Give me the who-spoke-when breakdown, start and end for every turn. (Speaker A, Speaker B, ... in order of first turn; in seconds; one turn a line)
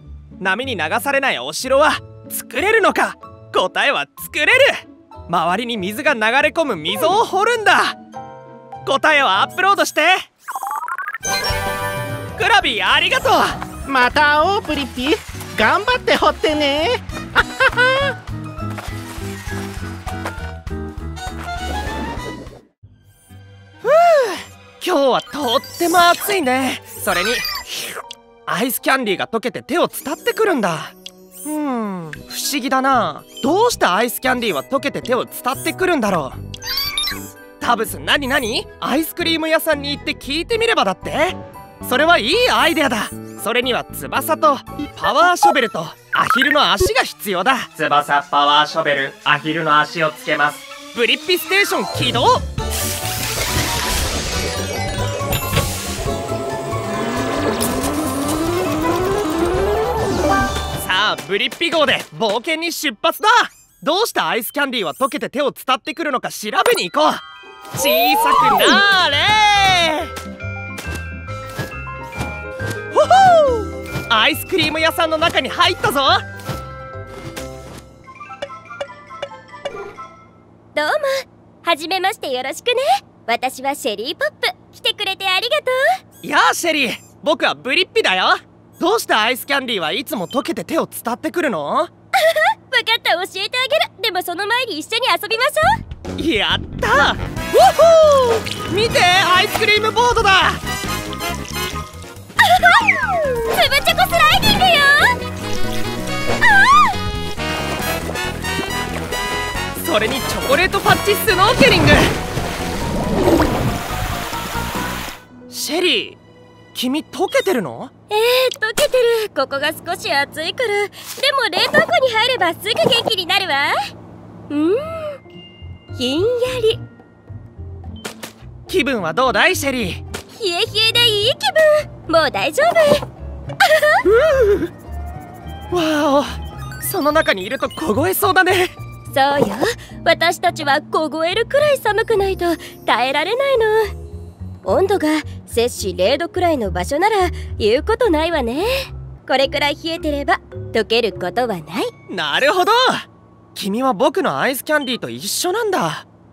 Speaker A: 0.4-8.0
Speaker A: 8.8-10.3
Speaker A: 12.4-13.6
Speaker B: 13.8-18.1
Speaker A: 23.8-27.6
Speaker A: 28.4-36.4
Speaker A: 37.6-47.7
Speaker C: 47.7-50.6
Speaker A: 50.9-52.4
Speaker A: 60.8-70.1
Speaker A: 72.9-76.2
Speaker D: 80.7-85.9
Speaker A: 86.2-91.9
Speaker D: 92.2-95.8
Speaker A: 96.2-100.6
Speaker D: 102.4-105.2
Speaker D: 106.4-106.9
Speaker A: 109.8-112.1
Speaker A: 115.5-116.2
Speaker A: 116.7-117.9
Speaker D: 118.1-123.8
Speaker D: 124.5-125.2
Speaker D: 126.0-126.8
Speaker A: 128.7-130.0
Speaker D: 130.3-133.0
Speaker D: 133.6-134.0
Speaker A: 134.1-134.7
Speaker A: 135.7-138.7
Speaker D: 139.1-143.9
Speaker D: 144.6-151.9
Speaker A: 152.1-156.1